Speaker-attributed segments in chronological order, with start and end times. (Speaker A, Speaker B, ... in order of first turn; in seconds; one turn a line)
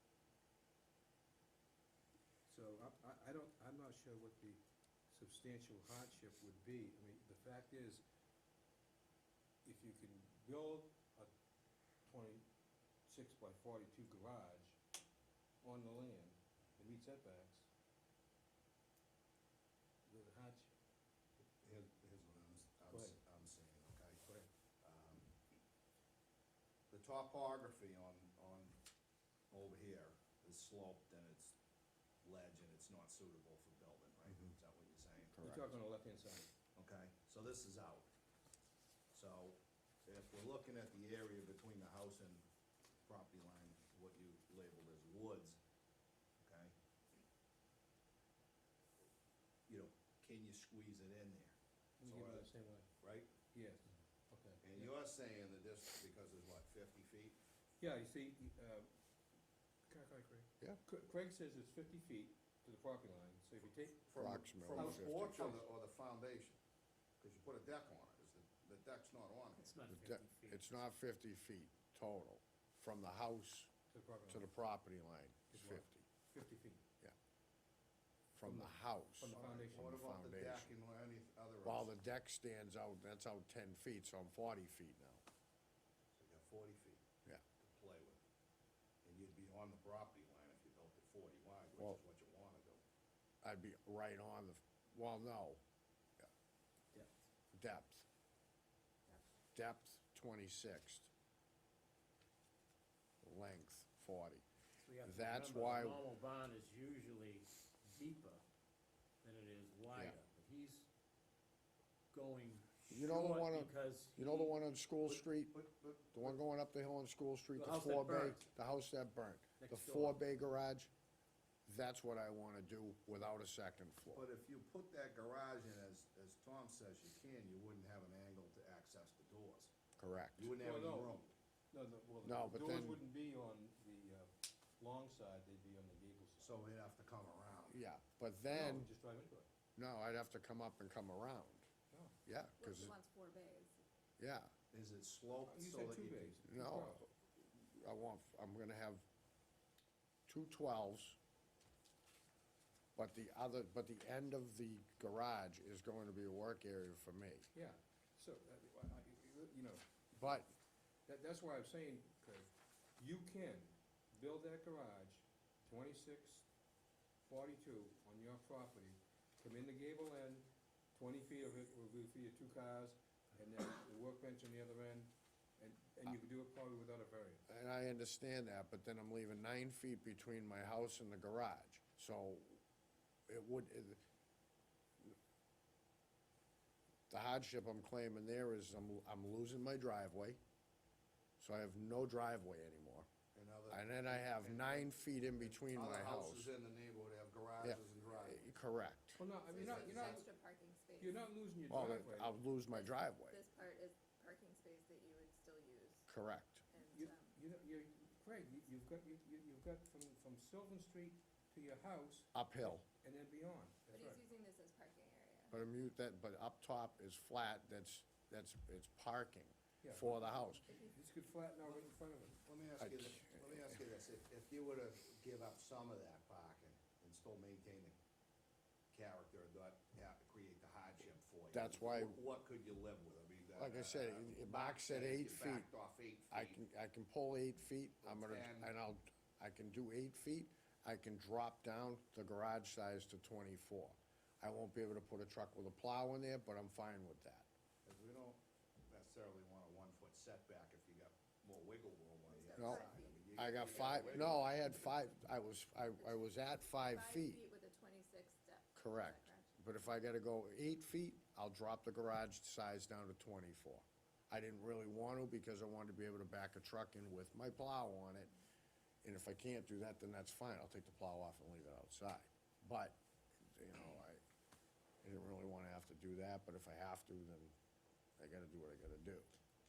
Speaker A: 2.5-8.0
Speaker A: 9.7-11.3
Speaker A: 12.1-12.5
Speaker A: 13.1-14.8
Speaker A: 15.6-17.7
Speaker A: 20.1-20.7
Speaker B: 21.6-24.2
Speaker A: 22.9-23.2
Speaker A: 24.2-24.5
Speaker B: 24.8-25.3
Speaker B: 26.9-28.8
Speaker B: 29.5-31.6
Speaker B: 32.2-35.4
Speaker C: 35.3-35.8
Speaker A: 35.4-36.5
Speaker B: 36.8-38.1
Speaker B: 39.1-42.4
Speaker B: 43.1-45.6
Speaker B: 46.4-46.7
Speaker B: 49.7-52.5
Speaker A: 52.0-52.9
Speaker B: 53.0-53.3
Speaker A: 53.5-54.9
Speaker B: 54.6-57.4
Speaker A: 57.8-58.9
Speaker A: 59.9-64.1
Speaker B: 64.0-66.6
Speaker C: 64.1-65.6
Speaker A: 64.7-65.6
Speaker B: 67.2-69.8
Speaker D: 69.5-70.7
Speaker C: 69.9-73.7
Speaker A: 73.9-74.5
Speaker C: 74.3-76.1
Speaker A: 75.5-76.8
Speaker C: 78.3-80.7
Speaker A: 78.4-80.0
Speaker B: 79.3-81.9
Speaker C: 81.7-85.2
Speaker B: 86.2-87.1
Speaker B: 87.6-88.2
Speaker B: 89.0-92.8
Speaker C: 93.4-95.6
Speaker C: 97.5-98.0
Speaker C: 99.5-101.1
Speaker C: 103.2-104.5
Speaker D: 104.8-108.4
Speaker C: 105.0-106.0
Speaker D: 109.2-110.9
Speaker D: 112.1-114.6
Speaker C: 112.9-115.6
Speaker B: 115.1-116.4
Speaker C: 116.1-120.9
Speaker D: 117.5-118.5
Speaker D: 119.6-120.2
Speaker C: 121.7-124.3
Speaker B: 124.1-129.7
Speaker C: 130.0-130.6
Speaker B: 130.4-131.3
Speaker A: 130.6-131.2
Speaker A: 131.7-136.6
Speaker C: 132.2-133.0
Speaker B: 136.4-137.8
Speaker C: 137.7-138.9
Speaker A: 138.5-139.5
Speaker C: 139.8-141.7
Speaker A: 141.9-142.2
Speaker C: 142.3-142.9
Speaker E: 142.6-143.8
Speaker C: 144.2-144.5
Speaker B: 144.7-146.4
Speaker A: 145.4-147.1
Speaker C: 146.5-149.1
Speaker C: 150.3-151.2
Speaker C: 153.0-157.5
Speaker A: 157.5-159.8
Speaker C: 160.1-160.5
Speaker A: 161.1-166.5
Speaker A: 167.2-177.4
Speaker C: 177.5-182.6
Speaker C: 183.3-184.0
Speaker C: 187.1-190.4
Speaker C: 191.4-193.1
Speaker B: 193.3-198.5
Speaker C: 193.7-196.5
Speaker C: 197.6-199.2
Speaker A: 199.2-200.3
Speaker E: 199.4-201.2
Speaker B: 199.5-200.2
Speaker A: 201.0-202.4
Speaker C: 201.7-203.4
Speaker E: 202.7-206.1
Speaker C: 206.1-206.6
Speaker E: 206.7-207.4
Speaker A: 206.9-214.2
Speaker C: 212.3-212.8
Speaker E: 213.9-215.6
Speaker C: 215.5-220.7
Speaker A: 219.8-220.3
Speaker E: 220.7-220.9
Speaker A: 220.9-222.4
Speaker B: 222.4-228.0
Speaker C: 222.8-223.7
Speaker B: 228.9-236.6
Speaker C: 231.5-232.2
Speaker C: 233.6-235.7
Speaker C: 236.3-247.5
Speaker B: 238.0-238.7
Speaker B: 247.8-254.7
Speaker E: 252.3-254.3
Speaker C: 252.6-257.4
Speaker E: 256.0-259.6
Speaker C: 258.8-268.3
Speaker C: 269.0-274.2
Speaker C: 275.0-277.5
Speaker C: 278.2-279.3